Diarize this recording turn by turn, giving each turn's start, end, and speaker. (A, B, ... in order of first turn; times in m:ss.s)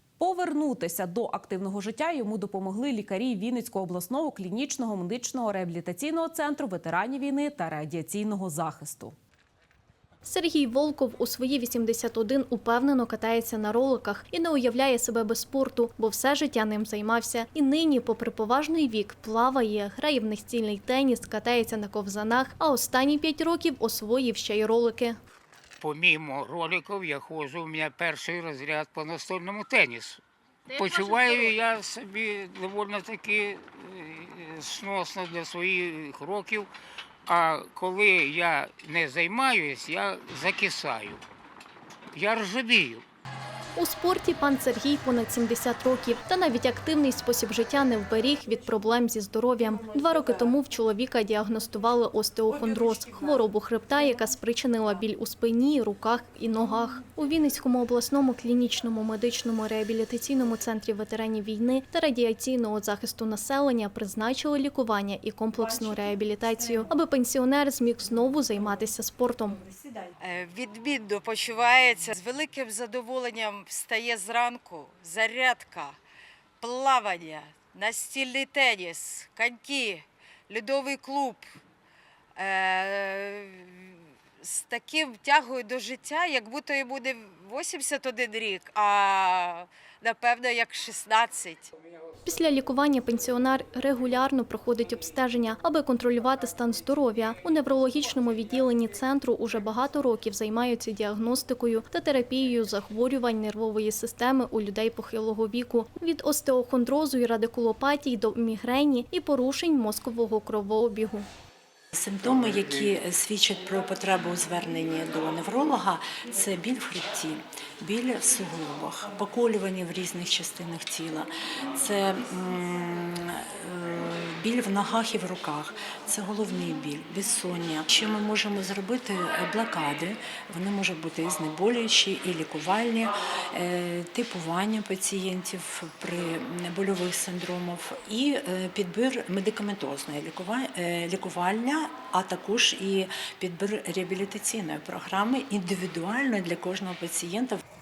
0:00.2-0:09.2 A
0:10.3-0:25.2 B
0:25.8-0:36.7 C
0:37.3-0:41.2 C
0:42.1-0:43.0 C
0:43.8-1:09.6 B
1:10.2-1:16.0 D
1:16.6-1:21.5 D
1:22.4-1:31.7 D
1:32.2-1:51.3 B
1:52.0-2:27.6 E